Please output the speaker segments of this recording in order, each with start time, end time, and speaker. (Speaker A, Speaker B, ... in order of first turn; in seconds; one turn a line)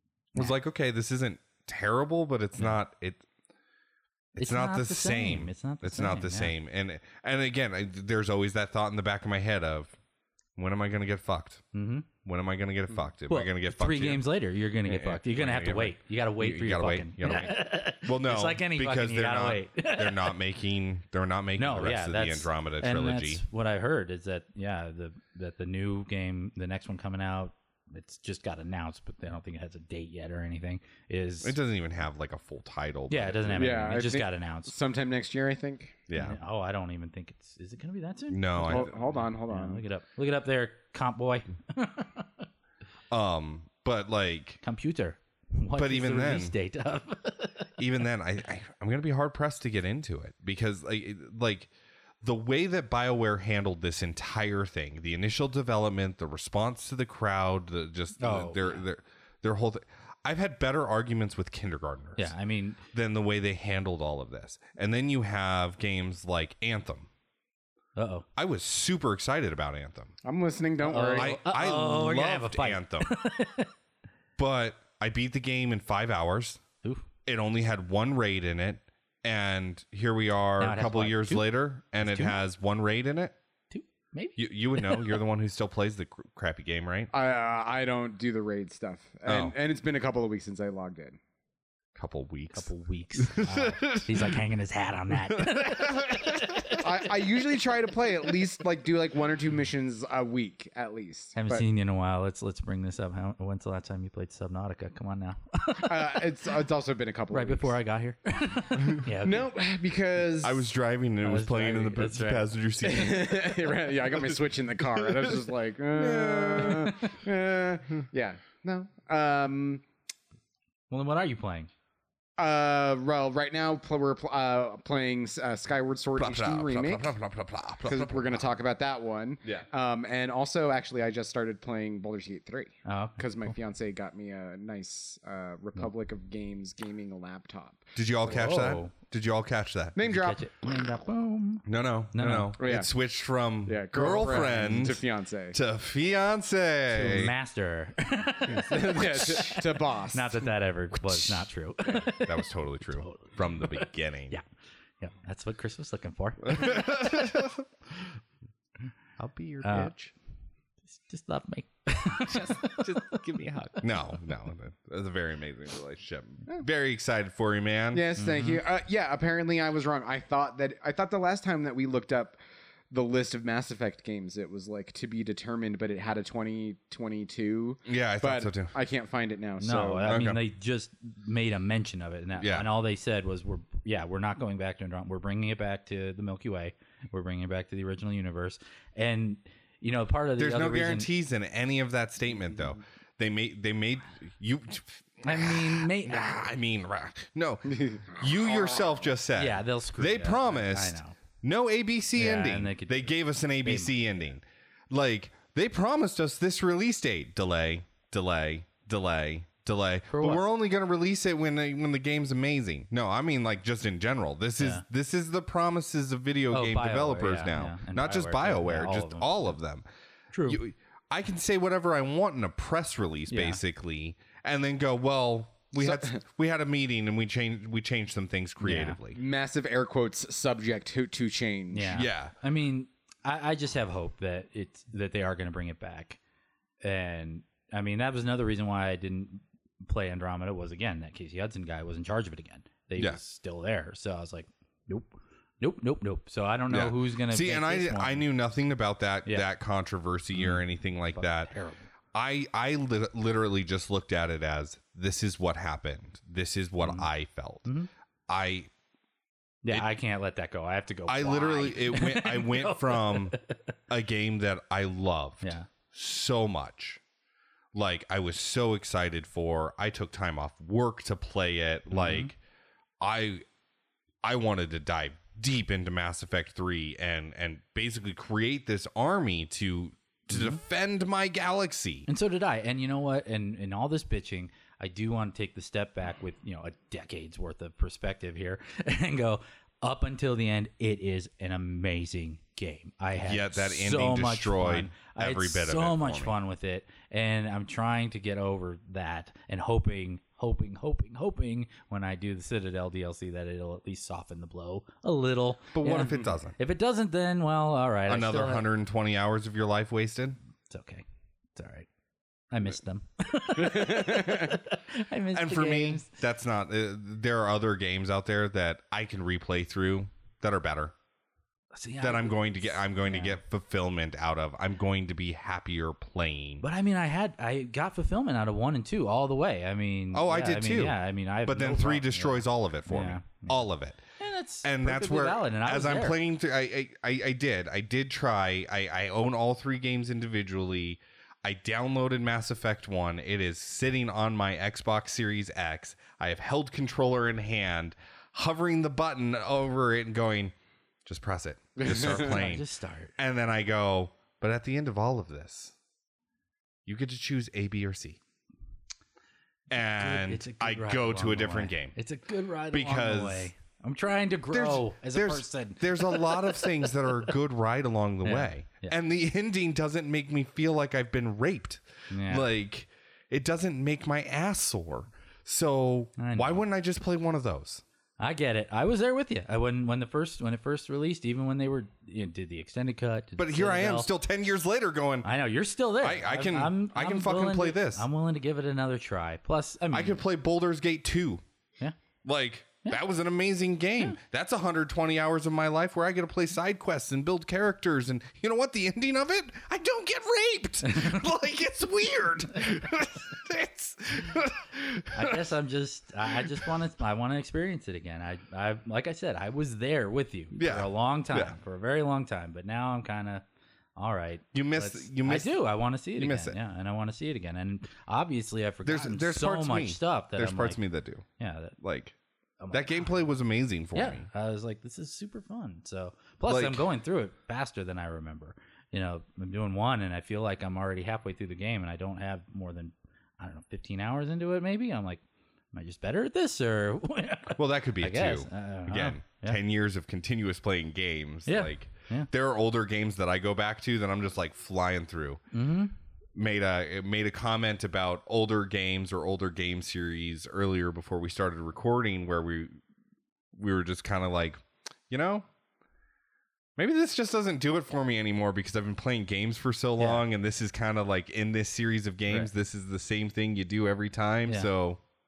Speaker A: 0.3-3.2
Speaker A: 4.3-9.9
Speaker B: 4.4-6.5
Speaker A: 10.6-11.6
Speaker B: 11.7-12.1
Speaker A: 12.2-14.2
Speaker B: 13.3-20.4
Speaker A: 14.8-23.4
Speaker B: 21.6-31.5
Speaker A: 31.4-33.9
Speaker B: 33.1-34.7
Speaker C: 33.5-36.0
Speaker A: 36.1-36.4
Speaker B: 36.1-42.5
Speaker A: 38.3-38.9
Speaker C: 38.7-39.8
Speaker A: 43.1-44.6
Speaker B: 44.6-47.7
Speaker A: 45.7-46.5
Speaker A: 47.8-51.7
Speaker A: 52.2-62.3
Speaker B: 58.2-58.8
Speaker B: 62.2-62.8
Speaker A: 62.9-67.1
Speaker B: 68.0-68.2
Speaker A: 68.3-70.1
Speaker C: 70.2-71.4
Speaker B: 70.8-73.7
Speaker A: 71.2-73.1
Speaker A: 74.4-76.6
Speaker A: 77.2-83.3
Speaker B: 80.6-82.4
Speaker B: 83.7-85.2
Speaker A: 84.3-87.1
Speaker C: 87.1-91.2
Speaker A: 89.2-89.5
Speaker A: 91.9-94.4
Speaker B: 92.5-96.8
Speaker A: 95.3-96.8
Speaker C: 96.8-101.6
Speaker B: 101.3-106.2
Speaker C: 105.8-107.7
Speaker B: 107.3-109.5
Speaker C: 109.2-110.6
Speaker A: 110.4-113.6
Speaker B: 111.2-112.5
Speaker C: 112.8-119.8
Speaker A: 115.0-115.4
Speaker A: 115.9-117.0
Speaker B: 120.9-121.7
Speaker C: 122.4-127.2
Speaker A: 126.2-128.5
Speaker C: 127.8-137.9
Speaker B: 132.8-133.5
Speaker A: 137.9-139.9
Speaker B: 138.2-138.9
Speaker C: 139.9-140.4
Speaker B: 140.0-142.5
Speaker A: 141.7-147.3
Speaker C: 142.6-142.9
Speaker C: 143.7-145.6
Speaker B: 146.9-154.4
Speaker C: 148.5-150.5
Speaker A: 151.9-154.3
Speaker B: 155.0-157.3
Speaker A: 156.5-157.6
Speaker A: 159.2-160.1
Speaker B: 159.6-159.9
Speaker B: 160.9-163.8
Speaker A: 162.3-168.1
Speaker C: 167.9-172.4
Speaker B: 168.2-168.6
Speaker C: 172.9-180.2
Speaker A: 177.8-178.7
Speaker B: 179.6-191.1
Speaker A: 180.1-180.4
Speaker A: 182.4-182.7
Speaker A: 190.4-219.8
Speaker B: 195.2-196.3
Speaker C: 197.7-198.0
Speaker B: 199.3-201.2
Speaker B: 202.2-203.9
Speaker B: 210.1-210.4
Speaker B: 214.6-214.8
Speaker B: 216.5-219.6
Speaker B: 220.3-220.6
Speaker A: 220.4-229.2
Speaker B: 223.3-223.6
Speaker C: 225.8-226.1
Speaker B: 228.6-229.0
Speaker C: 229.1-232.0
Speaker B: 231.7-236.2
Speaker A: 231.9-232.3
Speaker B: 236.8-248.2
Speaker A: 246.7-251.5
Speaker B: 250.3-251.9
Speaker A: 252.1-257.7
Speaker B: 256.8-257.1
Speaker A: 258.3-258.7
Speaker B: 259.6-263.6
Speaker A: 261.1-263.4
Speaker A: 263.9-267.0
Speaker B: 265.4-265.7
Speaker A: 267.7-272.3
Speaker B: 271.9-272.3
Speaker A: 273.0-273.4
Speaker A: 274.2-282.1
Speaker B: 280.3-280.6
Speaker B: 282.1-308.6
Speaker A: 293.2-296.4
Speaker A: 305.7-306.6
Speaker A: 308.1-310.4
Speaker B: 310.7-311.0
Speaker B: 311.6-311.9
Speaker B: 312.5-316.1
Speaker C: 313.6-314.5
Speaker A: 315.3-320.9
Speaker B: 321.7-323.4
Speaker A: 322.0-326.6
Speaker B: 326.6-333.6
Speaker A: 330.1-334.0
Speaker B: 334.2-336.2
Speaker A: 334.6-350.5
Speaker A: 351.1-352.6
Speaker C: 351.8-352.2
Speaker B: 351.9-353.1
Speaker A: 353.2-355.7
Speaker A: 356.9-358.2
Speaker A: 359.7-361.9
Speaker B: 359.9-366.9
Speaker A: 362.7-363.5
Speaker A: 364.5-377.8
Speaker B: 368.2-369.0
Speaker B: 372.1-372.5
Speaker B: 376.2-376.6
Speaker B: 378.2-384.1
Speaker A: 383.4-385.3
Speaker B: 385.2-390.2
Speaker A: 386.0-388.1
Speaker A: 389.9-391.4
Speaker A: 392.2-405.4
Speaker B: 400.8-401.2
Speaker B: 405.1-413.4
Speaker A: 406.3-406.7
Speaker A: 410.5-411.5
Speaker B: 413.9-420.8
Speaker A: 414.5-415.6
Speaker A: 416.2-416.6
Speaker A: 418.8-421.2
Speaker B: 421.4-421.8
Speaker A: 421.8-422.1
Speaker B: 422.6-423.2
Speaker A: 422.7-424.3
Speaker B: 423.9-435.2
Speaker A: 426.5-426.9
Speaker B: 435.7-439.6
Speaker A: 437.6-445.4
Speaker B: 441.4-442.3
Speaker B: 445.5-445.9
Speaker A: 446.3-452.8
Speaker A: 453.5-455.4
Speaker A: 456.8-465.0
Speaker B: 460.0-460.2